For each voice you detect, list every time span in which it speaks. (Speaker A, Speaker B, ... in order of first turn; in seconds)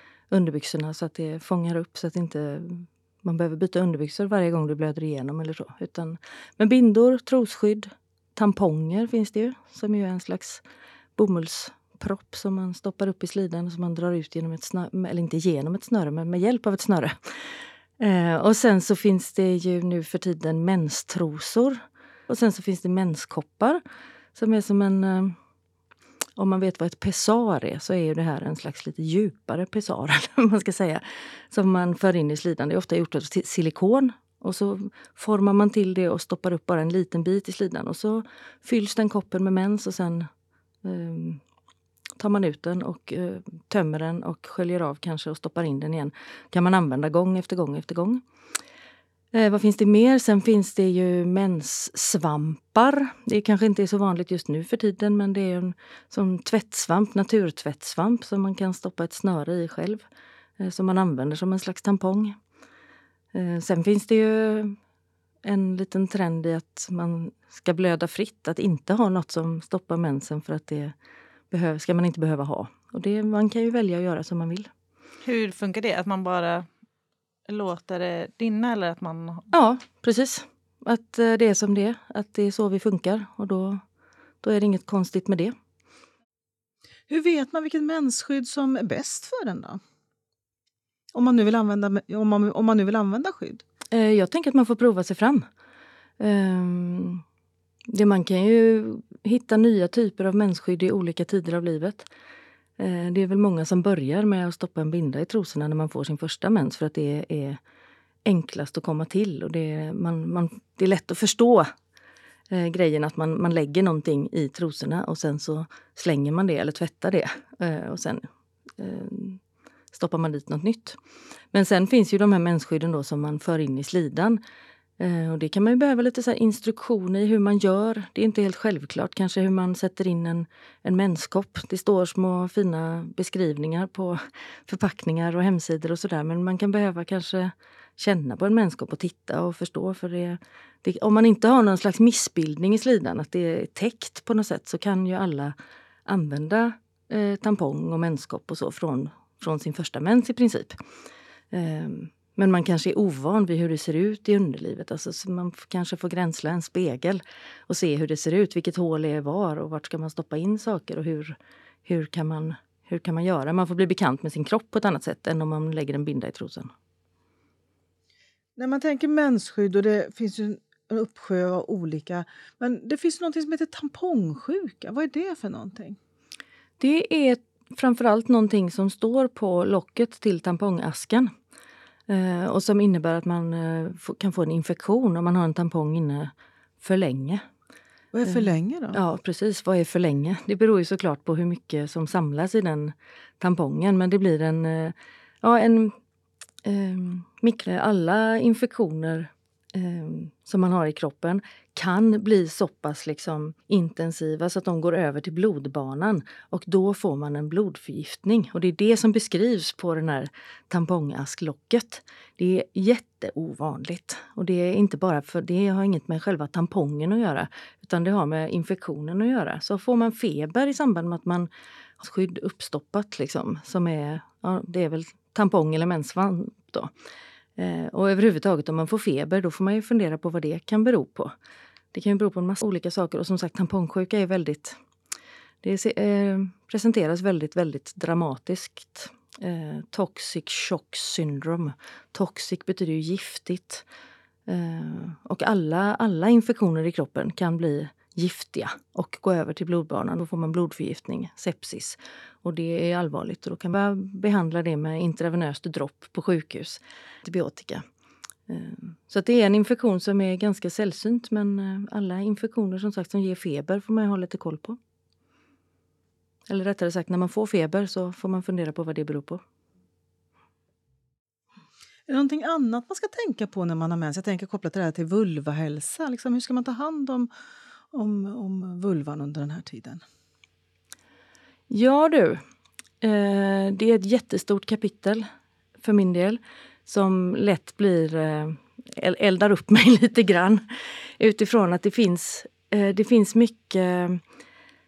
Speaker A: 0.3-10.6, 11.2-17.1, 18.0-23.8, 24.3-25.4, 26.4-40.3, 40.8-41.4, 42.2-48.2, 49.3-60.0, 60.6-62.4, 63.3-64.8, 65.4-70.9, 71.5-74.7, 79.5-83.8, 84.4-85.5, 93.9-95.5, 96.2-97.2, 97.9-102.1, 102.8-107.6, 108.2-111.7, 112.5-118.2, 118.8-119.4, 119.9-121.0, 121.5-124.4, 125.0-145.5, 146.1-150.8, 151.5-166.7, 176.8-181.3, 182.1-187.4, 188.2-195.9, 196.6-226.9, 227.6-231.3, 231.9-234.8, 235.6-243.8, 244.5-257.8, 258.5-264.8, 266.5-269.4, 281.7-282.4, 283.0-285.3, 285.8-290.6, 291.2-294.2
Speaker B: 75.2-76.7, 77.5-79.5
Speaker C: 87.1-89.8, 91.1-93.6, 168.6-176.0, 188.1-189.0, 272.1-277.3, 277.9-280.0